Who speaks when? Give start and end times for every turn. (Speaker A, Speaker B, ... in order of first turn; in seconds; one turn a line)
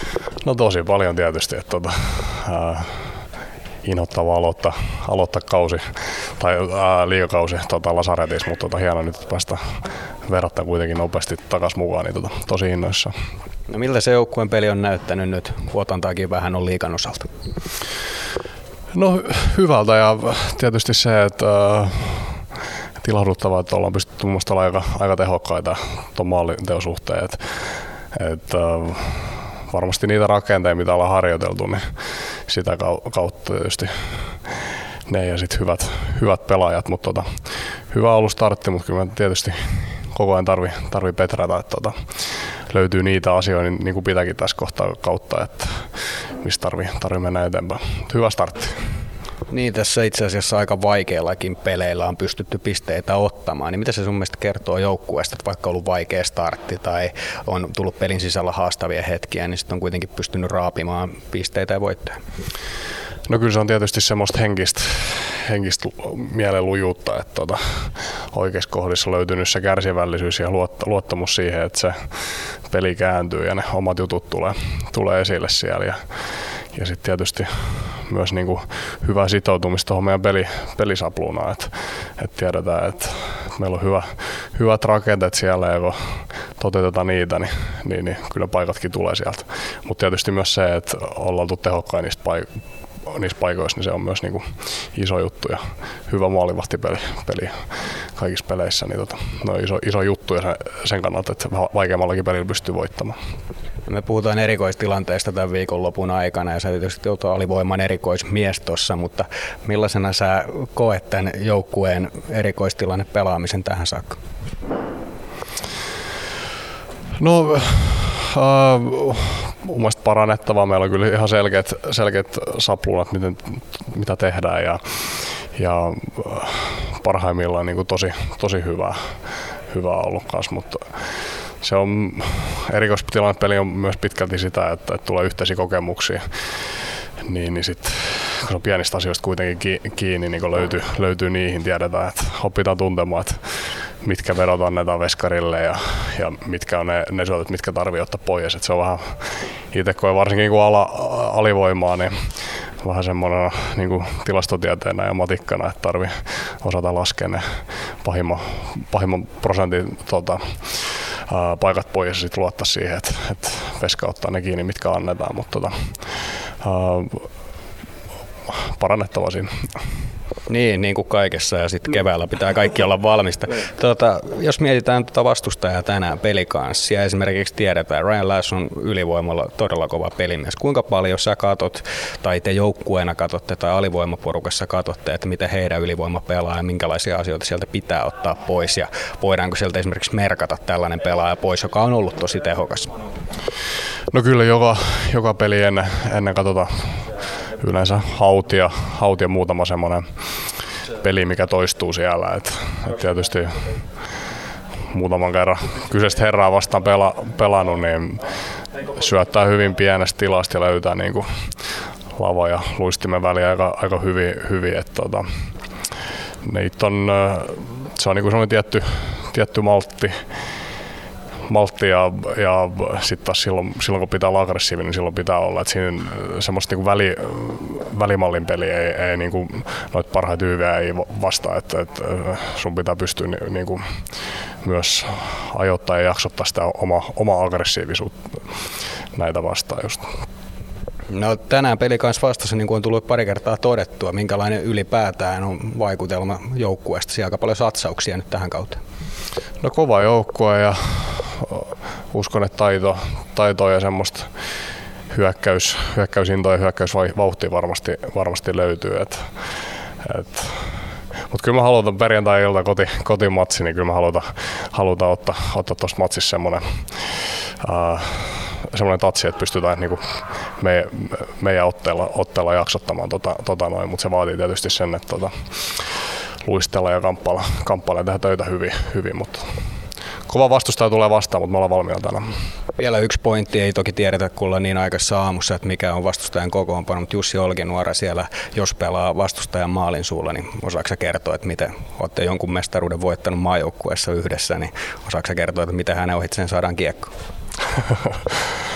Speaker A: 0.4-3.0
Speaker A: 3.8-13.1
Speaker B: 13.7-17.3
Speaker A: 18.9-22.4
Speaker A: 23.0-31.9
Speaker A: 32.5-34.5
Speaker A: 35.1-37.3
Speaker A: 37.9-42.0
Speaker A: 42.7-48.8
Speaker B: 49.5-62.2
Speaker A: 63.3-76.0
Speaker A: 76.7-92.5
Speaker A: 93.1-97.5
Speaker A: 98.2-103.2
Speaker B: 103.9-114.2
Speaker A: 117.2-129.1
Speaker A: 129.7-130.9
Speaker A: 131.6-136.2
Speaker A: 137.2-143.4
Speaker A: 144.0-152.3
Speaker A: 152.8-167.3
Speaker A: 168.5-169.5
Speaker B: 170.5-193.0
Speaker A: 194.1-200.1
Speaker A: 201.0-203.8
Speaker A: 204.9-211.3
Speaker A: 212.2-215.3
Speaker A: 216.4-220.2
Speaker A: 221.5-233.8
Speaker A: 234.6-238.2
Speaker A: 239.1-240.1
Speaker B: 241.1-248.8
Speaker A: 249.6-254.3
Speaker A: 255.1-259.3
Speaker A: 260.0-260.7
Speaker A: 261.3-275.3
Speaker A: 276.4-279.5
Speaker A: 280.3-282.3
Speaker B: 282.8-297.1